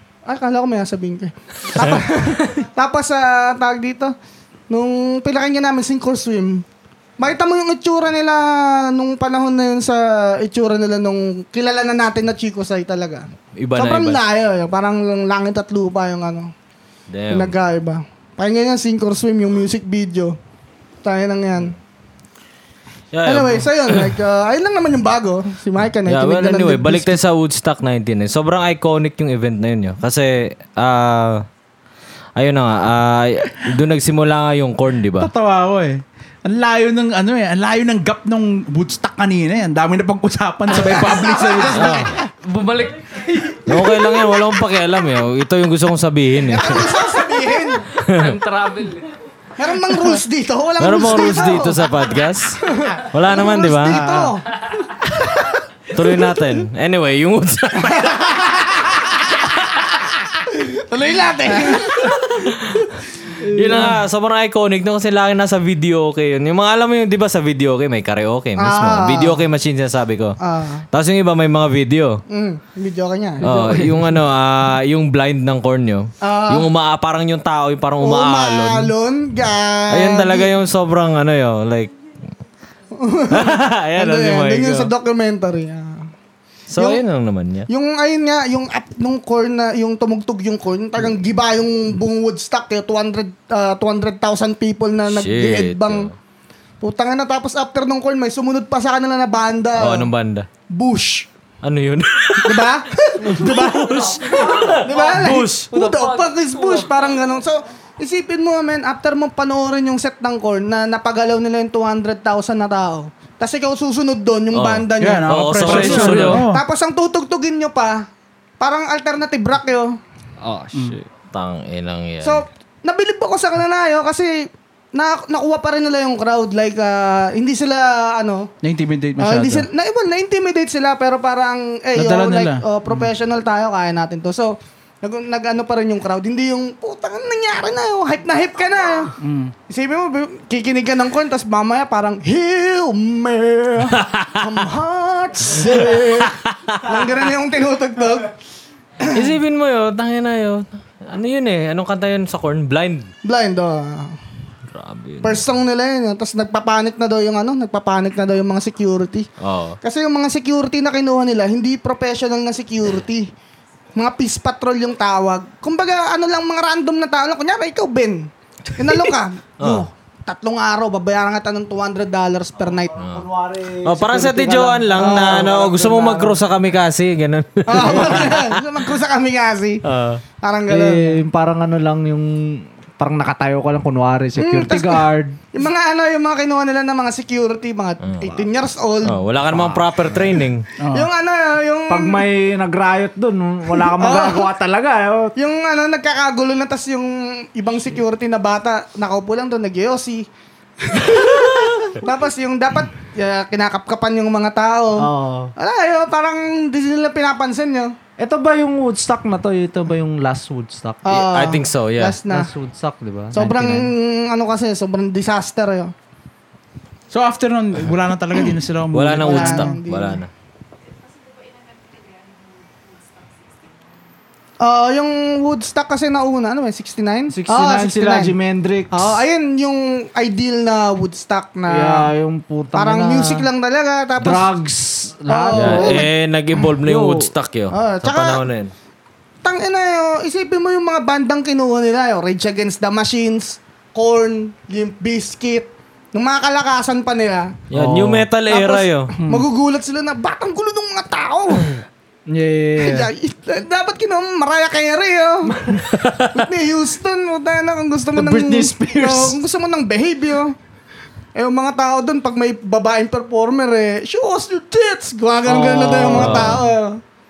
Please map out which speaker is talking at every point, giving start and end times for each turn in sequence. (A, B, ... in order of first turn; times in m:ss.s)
0:00.2-0:04.1 A
0:01.7-0:02.0 B
0:04.7-0:06.6 A
0:07.2-0:16.5 A
0:13.6-0:14.2 B
0:17.1-0:17.5 B
0:17.3-0:20.4 A
0:21.0-0:21.8 A
0:23.1-0:24.1 B
0:23.2-0:27.2 A
0:26.0-0:31.4 B
0:32.4-0:35.3 B
0:35.2-0:42.1 C
0:40.7-0:42.2 A
0:41.7-0:42.1 B
0:42.4-0:43.8 D
0:43.6-0:46.9 B
0:46.4-0:47.8 A
0:48.0-0:48.4 B
0:48.1-0:49.1 D
0:49.6-0:51.9 A
0:50.8-0:54.1 B
0:52.6-0:54.4 A
0:55.0-0:55.5 A
0:55.9-0:58.8 B
0:58.0-0:59.0 A
1:00.4-1:02.2 A
1:01.7-1:02.9 B
1:03.4-1:10.4 B
1:08.6-1:09.4 A
1:10.4-1:10.8 A
1:10.9-1:12.2 B
1:12.3-1:13.5 A
1:13.4-1:14.2 D
1:13.4-1:18.9 B
1:16.2-1:16.7 A
1:18.0-1:20.5 A
1:19.9-1:21.9 B
1:22.9-1:26.1 A
1:23.3-1:24.9 B
1:26.7-1:27.7 B
1:26.8-1:27.0 A
1:27.7-1:36.1 A
1:35.1-1:36.1 B
1:36.8-1:40.1 A
1:39.8-1:40.5 B
1:40.7-1:41.3 A
1:41.6-1:45.7 B
1:42.4-1:55.9 A
1:44.3-1:45.1 D
1:45.7-1:47.1 D
1:54.5-1:56.4 B
1:55.0-1:56.6 C
1:55.6-1:56.4 D
1:56.4-1:58.1 A
1:58.6-2:00.0 A
2:00.4-2:01.1 D
2:01.3-2:02.4 B
2:02.2-2:08.5 A
2:08.6-2:09.7 C
2:09.2-2:19.1 A
2:11.9-2:13.1 C
2:19.2-2:19.5 C
2:19.7-2:28.3 A
2:24.0-2:24.4 B
2:25.7-2:26.8 B
2:29.0-2:29.2 A
2:29.1-2:33.1 B
2:33.2-2:34.2 A
2:34.7-2:35.4 B
2:35.2-2:39.3 A
2:39.4-2:39.8 B
2:39.8-2:43.3 A
2:44.0-2:52.9 A
2:49.6-2:49.8 B
2:52.6-2:56.4 E
2:53.0-2:53.2 B
2:53.8-2:58.6 B
2:55.0-2:55.5 A
2:57.7-2:59.8 A
2:59.8-3:00.2 B
3:00.4-3:01.2 A
3:00.7-3:05.4 E
3:04.4-3:09.2 A
3:08.0-3:08.3 B
3:09.0-3:10.6 B
3:09.5-3:09.9 E
3:10.8-3:11.1 C
3:10.9-3:12.3 A
3:11.9-3:15.3 E
3:13.8-3:14.5 A
3:15.4-3:20.3 A
3:20.8-3:27.9 A
3:25.0-3:25.5 E
3:28.2-3:31.2 E
3:31.0-3:32.5 A
3:31.1-3:32.2 B
3:32.2-3:33.9 E
3:33.3-3:35.9 A
3:37.1-3:39.7 C
3:38.9-3:40.3 B
3:39.2-3:40.2 A
3:44.6-3:48.3 A
3:47.3-3:49.2 E
3:48.9-3:52.1 A
3:51.7-3:53.5 E
3:52.7-3:54.5 A
3:54.2-3:56.1 E
3:55.3-3:56.1 A
3:55.5-3:58.7 B
3:56.8-3:57.3 E
3:57.7-3:58.4 A
3:59.4-4:07.6 A
4:07.7-4:09.1 B
4:07.7-4:08.3 E
4:08.5-4:11.8 A
4:12.3-4:13.1 E
4:12.8-4:15.6 A
4:15.5-4:15.9 E
4:15.8-4:16.4 B
4:16.3-4:20.5 A
4:18.1-4:19.4 E
4:21.3-4:27.0 A
4:25.5-4:26.6 E
4:25.7-4:26.7 B